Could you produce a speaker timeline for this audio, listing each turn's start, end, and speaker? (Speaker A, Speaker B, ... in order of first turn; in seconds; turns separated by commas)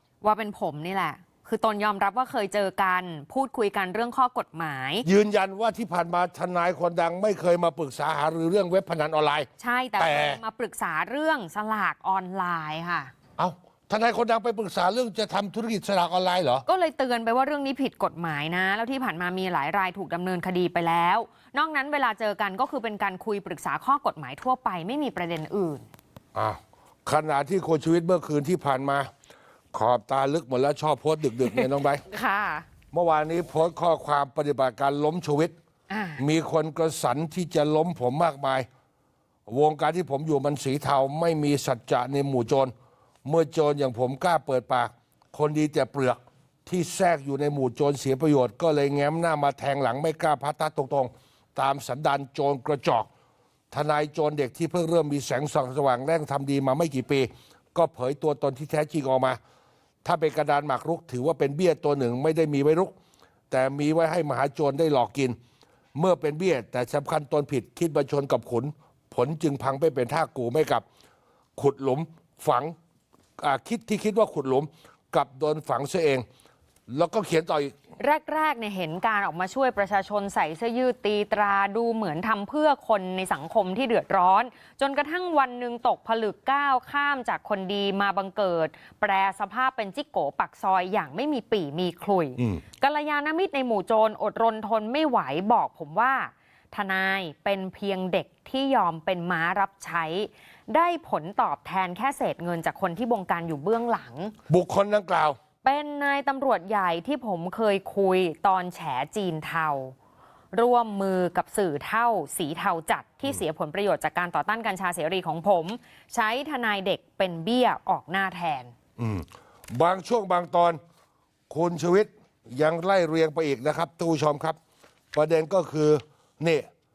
Speaker A: 0.2-5.0, Speaker B: 5.0-10.4, Speaker A: 9.6-13.1, Speaker B: 13.4-16.6, Speaker A: 16.7-25.8, Speaker B: 26.3-29.1, Speaker B: 29.7-32.0, Speaker A: 31.5-32.6, Speaker B: 32.9-35.5, Speaker A: 35.9-36.2, Speaker B: 36.2-38.7, Speaker B: 39.5-42.7, Speaker B: 43.2-53.1, Speaker B: 53.7-59.4, Speaker B: 60.0-62.9, Speaker B: 63.5-65.4, Speaker B: 65.9-70.8, Speaker B: 71.6-72.7, Speaker B: 73.4-76.2, Speaker B: 76.9-77.7, Speaker A: 78.0-104.3, Speaker B: 104.5-105.4, Speaker A: 105.6-109.9, Speaker A: 110.5-118.7, Speaker B: 119.0-120.8, Speaker B: 121.5-124.6, Speaker B: 125.1-126.7